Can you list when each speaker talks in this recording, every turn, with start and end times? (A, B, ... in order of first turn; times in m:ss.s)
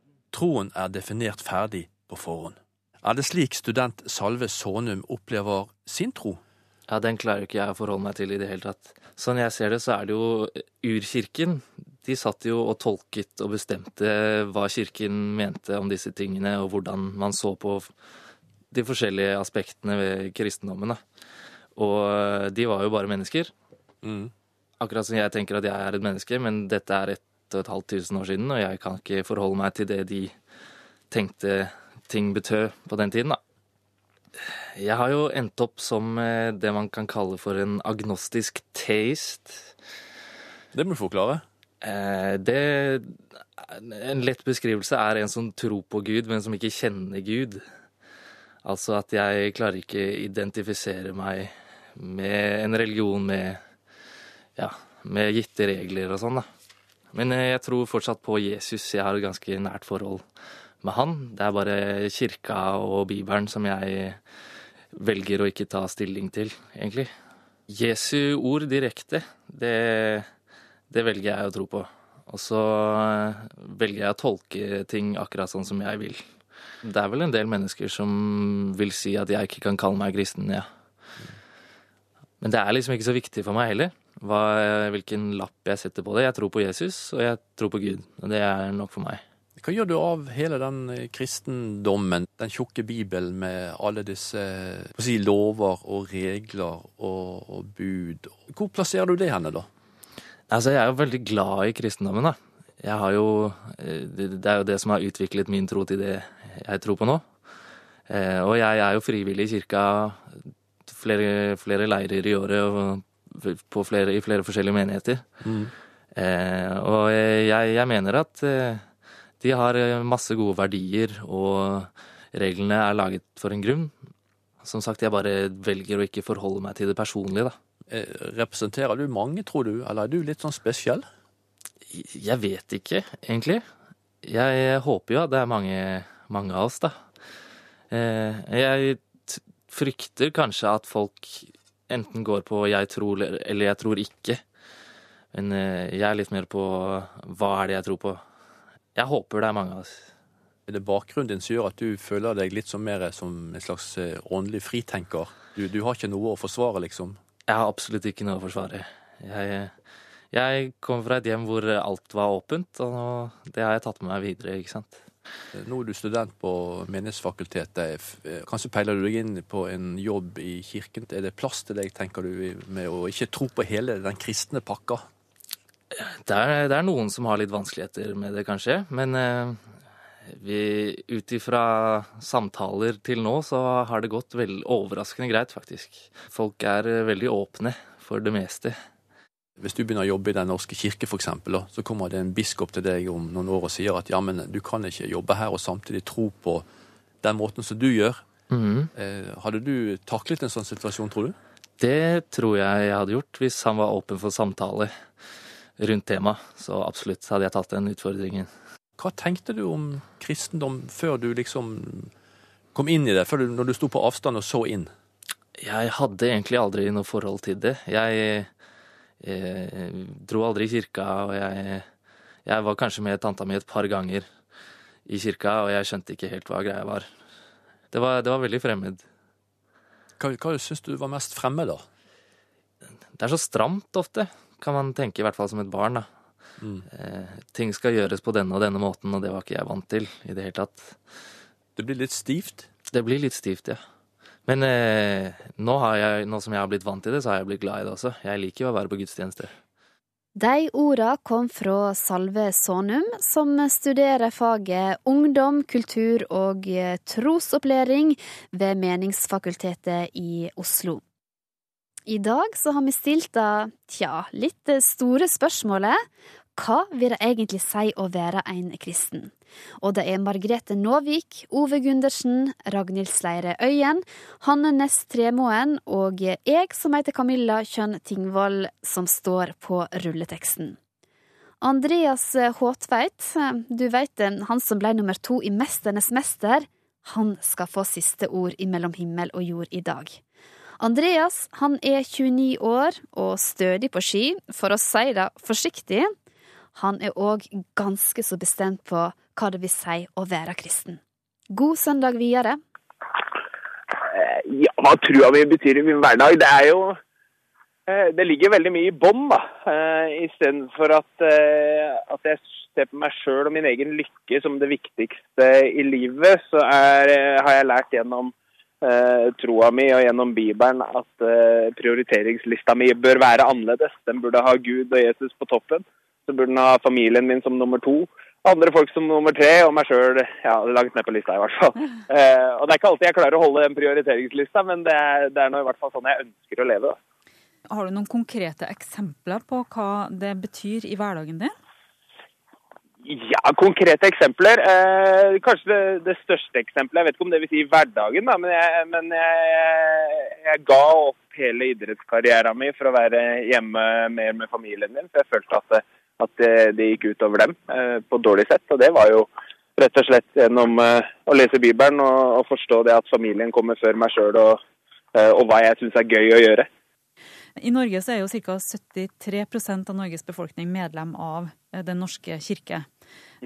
0:00.3-0:06.4 A
0:06.9-0:17.9 B
0:18.7-0:21.0 B
0:21.8-0:23.5 B
0:24.0-0:24.3 A
0:24.8-0:30.4 B
0:31.1-0:33.4 B
0:34.8-0:39.7 B
0:40.7-0:41.4 A
0:41.8-0:47.6 B
0:48.6-0:53.6 B
0:54.6-0:56.5 B
0:57.1-1:00.2 B
1:00.8-1:04.2 B
1:05.0-1:07.1 B
1:07.7-1:10.3 B
1:10.9-1:16.3 B
1:16.8-1:20.7 B
1:22.4-1:29.2 B
1:29.6-1:39.7 A
1:40.5-1:47.2 B
1:48.1-1:50.4 B
1:50.9-1:55.2 B
1:55.4-1:55.7 A
1:56.2-1:58.9 B
1:59.4-2:04.0 B
2:04.6-2:07.6 B
2:07.9-2:11.1 A
2:11.9-2:13.6 B
2:14.2-2:17.0 B
2:17.9-2:24.4 B
2:25.3-2:28.2 B
2:29.0-2:30.1 B
2:30.7-2:37.2 A
2:37.5-2:39.7 B
2:40.3-2:45.0 B
2:45.5-2:55.0 A
2:56.0-2:59.6 B
3:00.3-3:08.8 B
3:09.6-3:16.7 A
3:17.2-3:18.2 A
3:18.5-3:18.9 B
3:19.0-3:21.4 A
3:21.8-3:24.9 B
3:25.8-3:28.5 B
3:29.0-3:32.1 A
3:32.7-3:34.9 A
3:35.6-3:38.5 B
3:39.2-3:41.9 B
3:42.5-3:44.3 B
3:45.1-3:47.1 B
3:47.9-3:49.0 B
3:50.2-3:51.9 A
3:53.2-3:56.1 B
3:56.6-3:56.9 A
3:56.9-4:01.0 B
4:01.8-4:02.7 A
4:02.9-4:03.8 B
4:04.5-4:09.5 B
4:10.4-4:21.0 C
4:22.1-4:26.0 C
4:26.6-4:40.8 C
4:41.6-4:50.2 C
4:50.8-4:56.1 C
4:56.8-5:01.0 C
5:01.5-5:02.6 C
5:04.1-5:07.0 D
5:07.9-5:37.0 D
5:37.7-5:41.6 E
5:43.0-6:04.6 D
6:05.2-6:06.7 D
6:07.6-6:12.9 E